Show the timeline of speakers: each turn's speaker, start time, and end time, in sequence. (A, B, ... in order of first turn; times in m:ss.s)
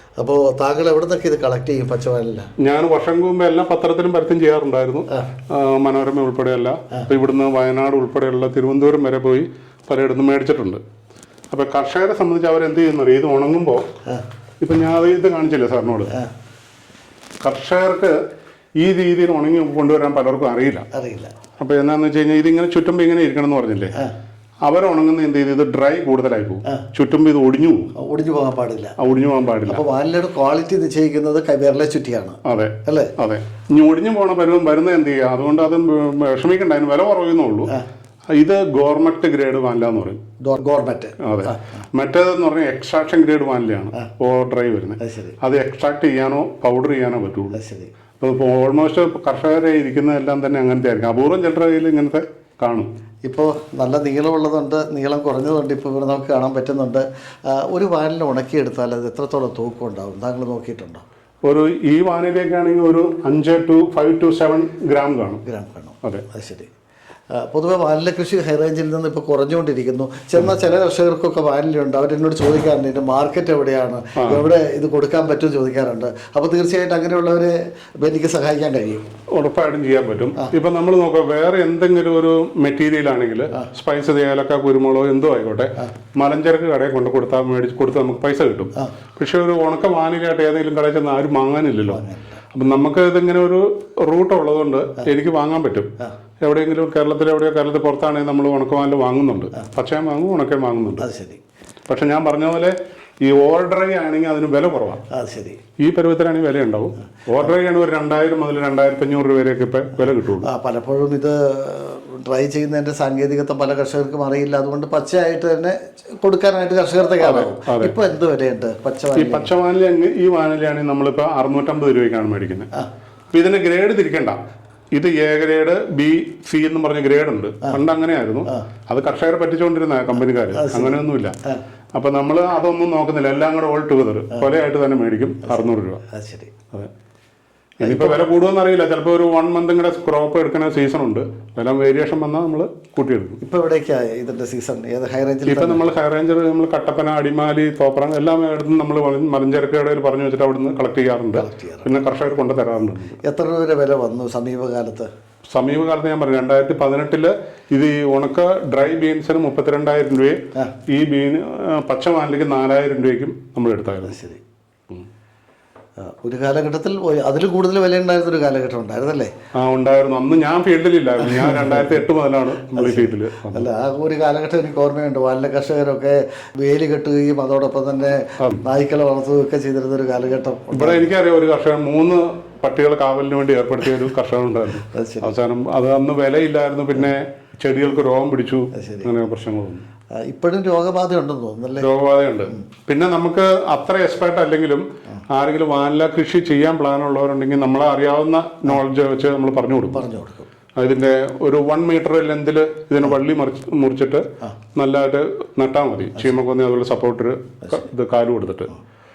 0:00.2-0:02.5 A
0:02.6-0:10.8 B
0:11.5-0:13.9 B
0:14.6-0:16.2 B
0:17.4-0:18.2 B
0:18.8-0:20.9 B
0:20.9-0:21.3 A
0:21.6-0:24.0 B
0:24.6-0:27.9 B
0:28.0-0:29.0 A
0:29.0-0:29.8 B
0:29.6-0:33.1 A
0:32.4-0:37.8 B
0:38.3-0:40.2 B
0:40.4-0:41.5 A
0:41.2-0:47.6 B
0:45.0-0:45.4 A
0:47.5-0:47.9 A
0:48.2-0:52.9 B
0:53.2-1:01.0 A
1:01.4-1:05.4 B
1:05.4-1:06.7 A
1:07.3-1:19.0 A
1:14.2-1:14.4 B
1:19.4-1:41.1 B
1:31.9-1:32.4 A
1:41.0-1:41.4 A
1:41.9-1:45.0 B
1:45.1-1:45.6 A
1:45.8-1:50.5 B
1:50.4-1:59.5 A
1:57.2-1:57.9 B
1:59.2-2:02.7 B
2:03.3-2:04.4 B
2:04.9-2:11.3 B
2:10.5-2:10.9 A
2:11.9-2:16.0 B
2:15.4-2:16.5 A
2:17.8-2:18.2 A
2:17.8-2:23.4 B
2:23.4-2:25.8 A
2:25.4-2:33.2 B
2:31.3-2:31.9 A
2:33.2-2:35.1 A
2:35.5-2:44.2 B
2:44.0-2:44.4 A
2:46.0-2:49.3 A
2:49.5-2:53.7 B
2:51.2-2:52.0 A
2:52.7-3:01.1 A
3:00.7-3:09.8 B
3:04.9-3:05.4 A
3:08.7-3:09.1 A
3:10.1-3:11.9 A
3:11.8-3:20.0 B
3:19.9-3:20.5 A
3:20.8-3:24.2 B
3:24.8-3:28.7 B